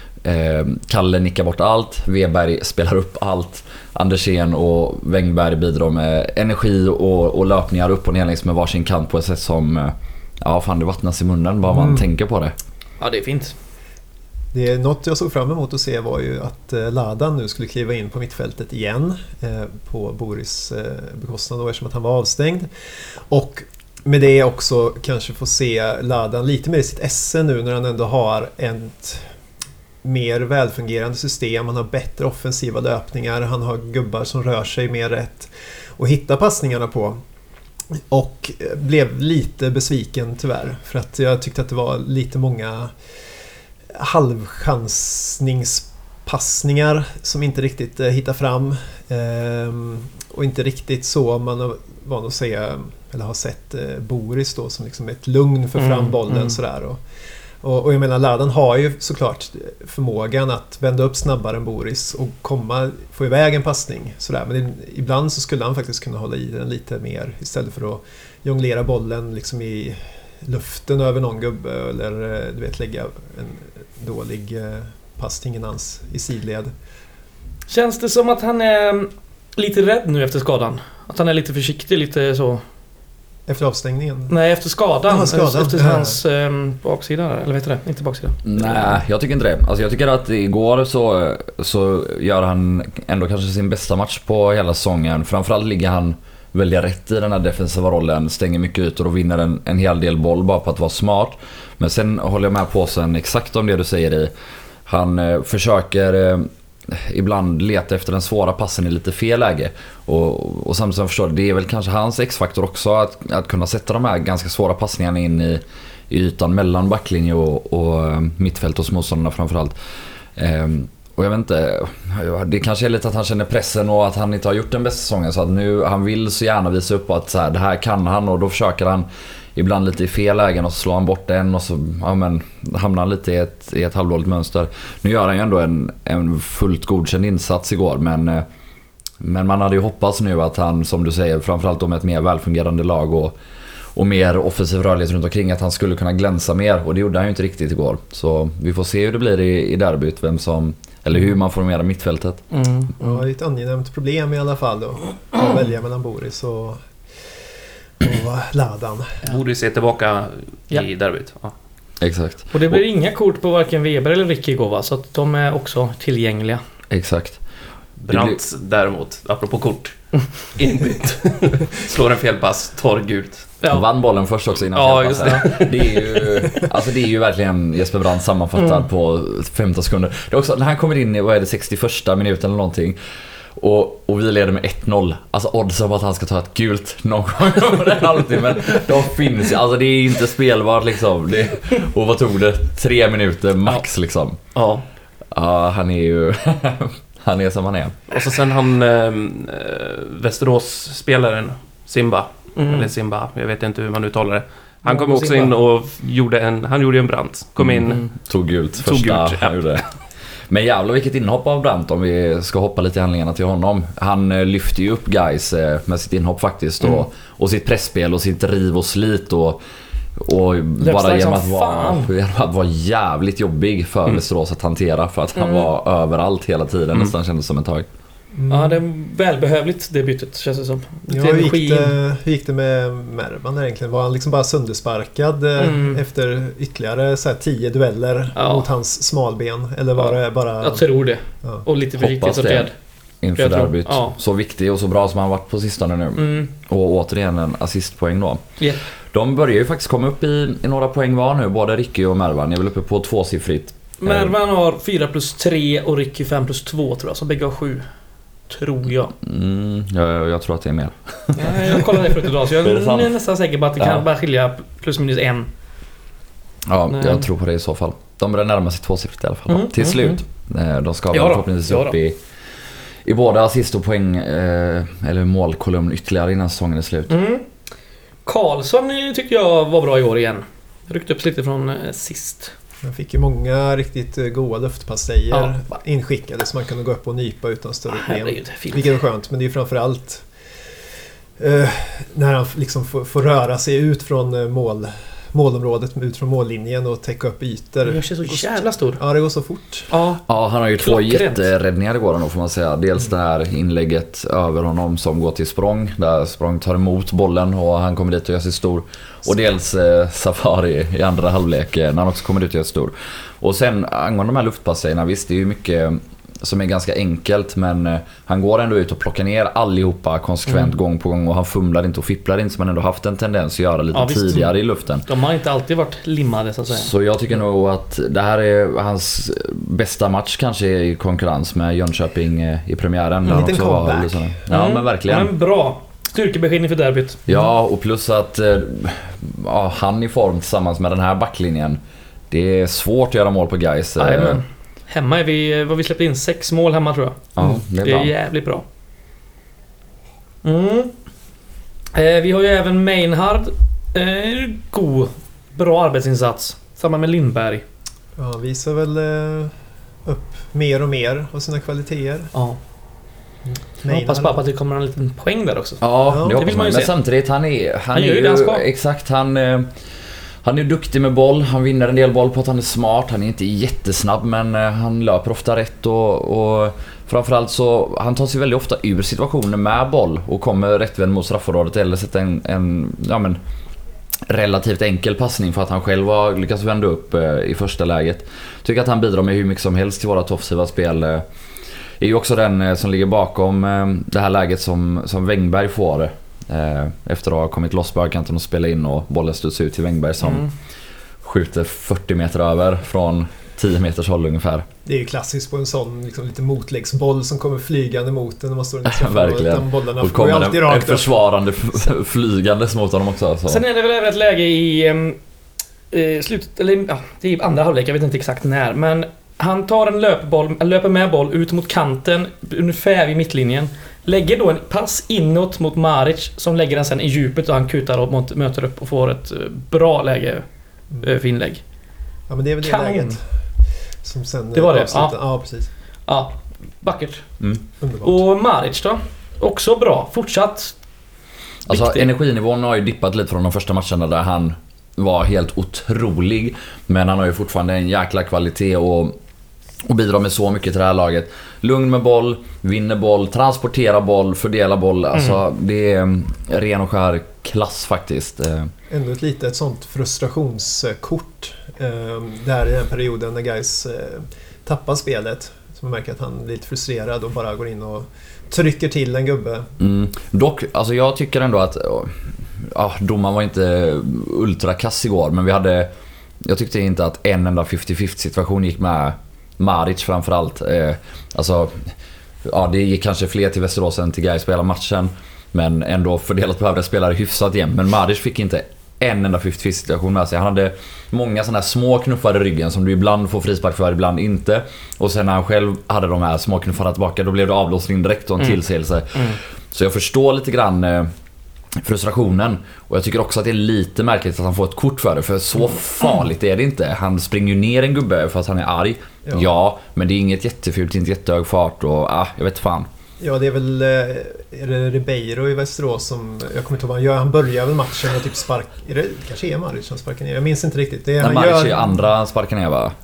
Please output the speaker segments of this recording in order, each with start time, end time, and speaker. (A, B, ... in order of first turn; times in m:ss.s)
0:00.2-0:12.5 A
0:11.7-0:12.0 B
0:13.0-0:13.6 C
0:14.5-0:22.7 B
0:23.3-0:29.3 B
0:30.0-0:37.2 B
0:38.0-0:42.9 B
0:44.0-0:57.0 B
0:55.8-0:56.6 C
0:57.6-1:16.7 B
1:17.7-1:22.6 C
1:23.5-1:24.3 B
1:24.3-1:29.0 C
1:25.1-1:26.2 B
1:28.4-1:44.3 A
1:44.9-1:59.8 A
2:00.4-2:18.5 A
2:19.2-2:23.4 A
2:24.0-2:32.4 A
2:33.0-2:36.8 B
2:38.0-2:39.1 B
2:39.3-2:41.5 D
2:42.0-2:42.8 A
2:42.5-2:46.6 C
2:46.9-2:47.4 A
2:48.0-2:48.4 A
2:48.1-2:53.5 D
2:53.7-3:03.0 A
2:54.7-2:56.3 D
3:03.6-3:14.4 A
3:14.6-3:14.8 D
3:15.3-3:18.0 A
3:18.1-3:28.1 D
3:22.6-3:22.9 C
3:24.8-3:25.6 C
3:27.6-3:29.8 A
3:28.8-3:29.5 D
3:30.5-3:39.6 A
3:40.2-3:47.9 A
3:40.8-3:42.1 C
3:45.4-3:45.7 C
3:48.4-3:48.8 B
3:48.5-3:52.0 C
3:51.1-4:00.8 B
3:55.6-3:56.0 C
3:58.4-3:58.7 C
4:00.0-4:02.7 C
4:02.0-4:02.7 A
4:03.2-4:08.4 A
4:03.4-4:04.1 C
4:06.2-4:06.5 C
4:09.1-4:14.4 A
4:14.0-4:17.8 C
4:18.5-4:19.1 C
4:19.2-4:23.2 A
4:21.4-4:25.5 C
4:23.8-4:24.0 A
4:26.7-4:32.2 A
4:26.9-4:27.2 C
4:29.5-4:30.2 C
4:31.1-4:32.0 C
4:33.0-4:37.2 A
4:37.1-4:37.4 C
4:38.3-4:42.5 C
4:42.8-4:50.2 B
4:47.9-4:48.9 C
4:51.4-4:59.9 B
4:57.8-4:59.0 C
4:59.9-5:00.2 C
5:00.3-5:25.1 A
5:00.8-5:01.4 C
5:23.9-5:24.5 C
5:25.1-5:26.9 C
5:26.7-5:35.3 A
5:33.2-5:34.4 B
5:34.5-5:37.3 C
5:37.3-5:44.4 A
5:44.0-5:48.6 C
5:47.4-5:48.1 A
5:50.4-5:50.9 C
5:51.9-5:57.6 C
5:58.2-5:59.5 B
6:00.0-6:02.3 B
6:03.5-6:04.4 B
6:03.8-6:06.9 C
6:05.8-6:09.7 A
6:06.1-6:06.4 B
6:07.9-6:08.6 C
6:10.4-6:23.4 A
6:24.3-6:31.2 A
6:32.0-6:40.5 A
6:40.2-6:40.5 C
6:41.2-6:44.7 A
6:44.8-6:51.2 B
6:48.8-6:53.6 A
6:53.5-6:55.2 C
6:55.9-7:10.4 C
7:11.0-7:11.6 C
7:12.3-7:13.2 B
7:12.6-7:13.2 C
7:14.0-7:15.7 B
7:14.6-7:15.2 C
7:16.1-7:17.3 C
7:17.8-7:18.2 B
7:18.0-7:20.7 C
7:21.7-7:29.2 A
7:21.7-7:22.1 C
7:29.8-7:38.7 A
7:38.9-7:49.7 B
7:49.8-8:01.9 A
8:02.4-8:21.1 A
8:21.8-8:32.9 A
8:33.2-8:42.0 B
8:41.2-8:43.0 A